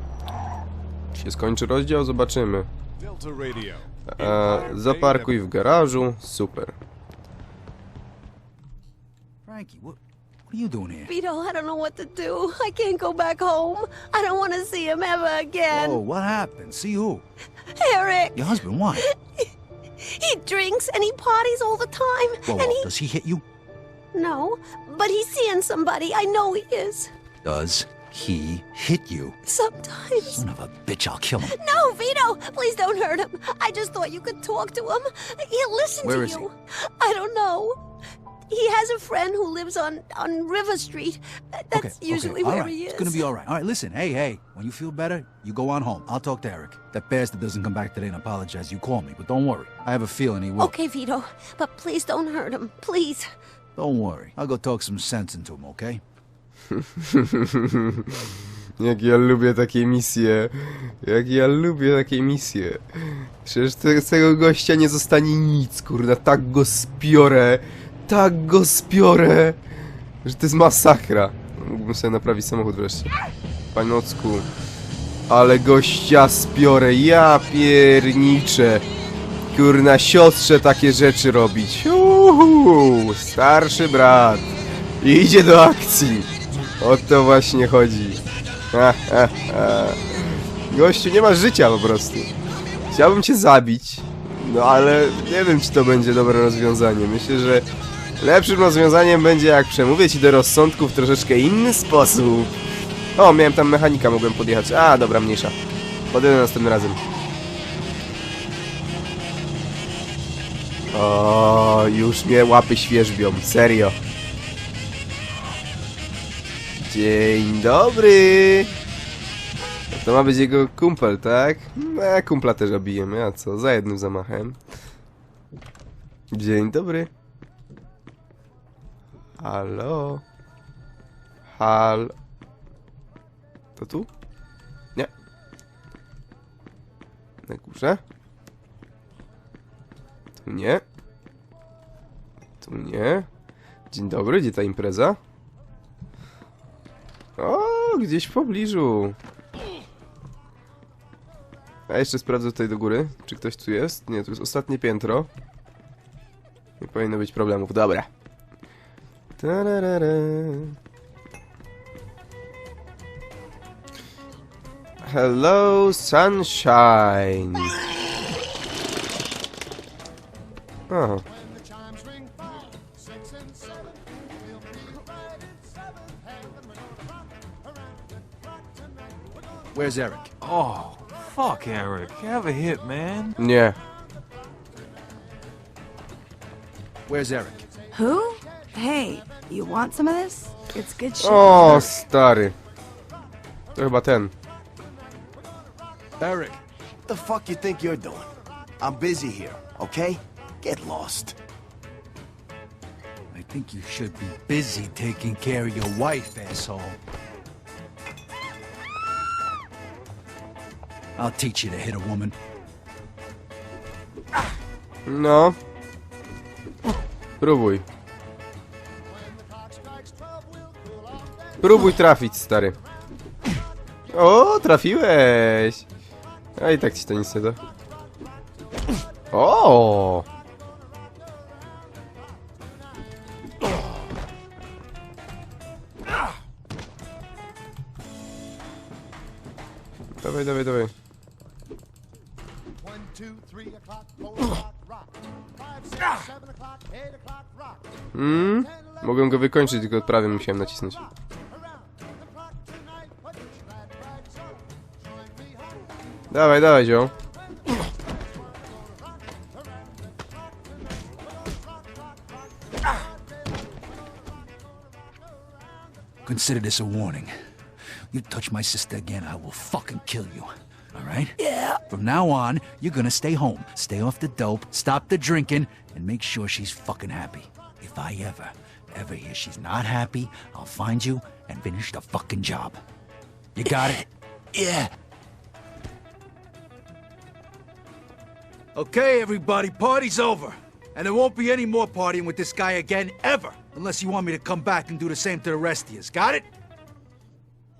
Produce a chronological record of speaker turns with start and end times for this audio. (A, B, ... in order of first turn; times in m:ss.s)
0:01.2-0:02.7 A
0:03.0-0:05.4 B
0:04.1-0:06.7 A
0:09.4-0:11.1 C
0:11.1-0:16.0 D
0:15.7-0:17.2 C
0:17.8-0:19.5 D
0:18.3-0:19.1 C
0:20.0-0:22.8 D
0:22.4-0:23.4 C
0:24.1-0:27.1 D
0:27.4-0:29.4 C
0:29.4-0:30.4 D
0:30.2-0:31.6 C
0:31.4-0:37.8 D
0:36.0-0:36.5 C
0:38.5-0:43.3 D
0:41.7-0:50.7 C
0:50.6-0:53.3 D
0:53.8-0:56.0 C
0:56.7-0:58.3 A
0:58.8-1:09.6 A
1:10.2-1:13.1 A
1:13.7-1:14.5 A
1:15.3-1:18.8 A
1:19.5-1:24.5 A
1:25.0-1:28.2 A
1:28.7-1:32.3 A
1:32.9-1:37.7 A
1:38.2-1:42.5 A
1:43.2-1:45.5 A
1:46.1-1:47.0 A
1:50.9-1:53.9 A
1:56.9-1:58.7 A
1:59.9-2:04.6 A
2:06.3-2:07.1 A
2:09.4-2:10.2 A
2:11.6-2:12.1 A
2:13.8-2:14.1 A
2:17.5-2:18.0 A
2:20.4-2:20.8 A
2:22.6-2:23.3 A
2:23.9-2:25.2 A
2:27.4-2:29.2 A
2:31.9-2:35.3 A
2:36.8-2:38.1 A
2:39.4-2:40.7 A
2:45.0-2:47.7 A
2:50.9-2:51.2 A
2:59.7-3:00.3 C
3:00.4-3:03.3 B
3:03.4-3:03.8 A
3:07.1-3:07.7 C
3:07.9-3:11.9 E
3:11.2-3:12.5 A
3:11.5-3:12.0 C
3:13.7-3:14.3 A
3:16.2-3:16.6 C
3:17.1-3:21.4 F
3:23.3-3:27.0 C
3:31.2-3:32.4 C
3:35.0-3:35.6 A
3:37.4-3:37.8 A
3:41.6-3:42.8 A
3:44.1-3:45.8 A
3:46.6-3:47.6 A
3:49.3-3:50.2 A
4:00.2-4:00.9 A
4:08.1-4:11.0 A
4:16.3-4:17.1 A
4:26.2-4:27.3 C
4:28.1-4:42.8 C
4:43.5-4:44.8 C
4:48.7-4:56.5 C